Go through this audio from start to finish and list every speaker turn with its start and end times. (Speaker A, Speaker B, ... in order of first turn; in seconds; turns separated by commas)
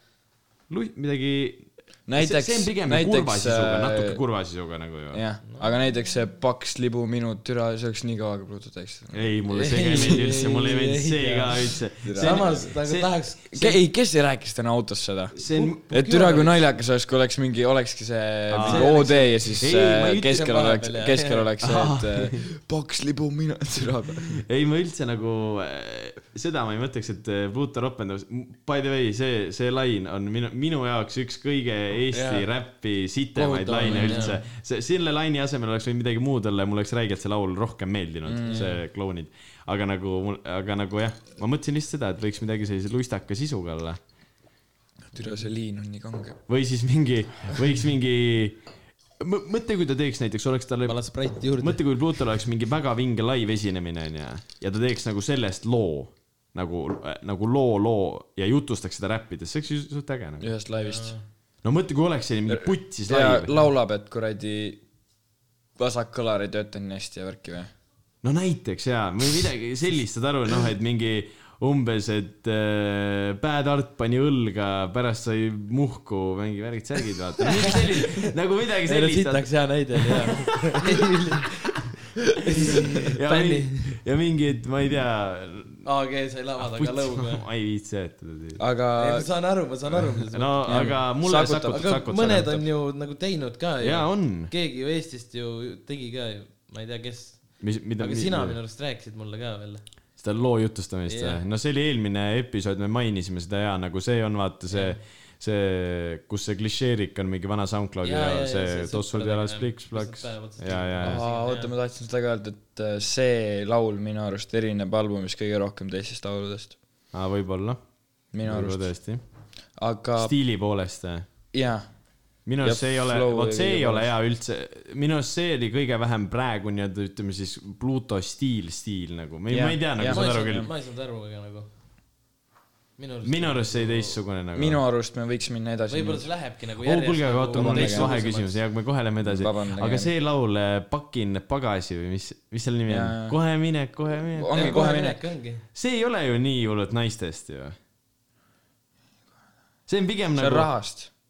Speaker A: 0.7-5.2, Speaker B: 2.1-4.2, Speaker B: 5.1-10.4, Speaker A: 9.1-13.2, Speaker C: 9.5-13.8, Speaker B: 12.0-12.7, Speaker B: 13.5-24.4, Speaker A: 15.3-16.5, Speaker C: 15.5-16.4, Speaker A: 18.5-20.6, Speaker C: 18.6-21.5, Speaker A: 21.6-22.4, Speaker A: 24.3-44.0, Speaker C: 32.1-32.5, Speaker C: 33.3-34.4, Speaker B: 33.8-34.4, Speaker B: 38.2-38.7, Speaker B: 45.1-46.4, Speaker A: 46.5-48.6, Speaker A: 49.2-60.5, Speaker C: 50.8-52.0, Speaker B: 60.4-61.2, Speaker C: 60.8-61.2, Speaker A: 61.6-63.5, Speaker B: 62.5-64.8, Speaker B: 65.8-67.7, Speaker A: 68.2-80.1, Speaker C: 77.7-78.1, Speaker C: 78.9-81.8, Speaker C: 82.5-84.0, Speaker A: 83.2-85.9, Speaker C: 85.8-87.5, Speaker A: 86.6-88.6, Speaker B: 88.6-89.3, Speaker C: 88.9-100.0, Speaker A: 89.9-92.7, Speaker B: 90.7-92.2, Speaker A: 93.8-94.5, Speaker A: 97.6-98.6, Speaker A: 100.2-111.2, Speaker C: 101.1-101.4, Speaker C: 104.7-105.0, Speaker C: 108.0-111.7, Speaker B: 111.0-116.8, Speaker A: 117.1-119.2, Speaker B: 118.3-119.1, Speaker B: 119.7-120.3, Speaker A: 120.2-121.2, Speaker B: 121.5-124.1, Speaker A: 122.4-130.7, Speaker B: 129.5-130.7, Speaker C: 130.0-131.7, Speaker C: 133.0-134.2, Speaker A: 133.2-134.8, Speaker B: 134.6-136.3, Speaker C: 135.9-138.6, Speaker A: 136.8-145.1, Speaker B: 137.5-138.1, Speaker B: 139.2-140.1, Speaker B: 142.9-143.4, Speaker B: 144.4-145.2, Speaker C: 144.5-145.7, Speaker A: 145.7-147.8, Speaker A: 149.9-150.7, Speaker B: 150.3-151.1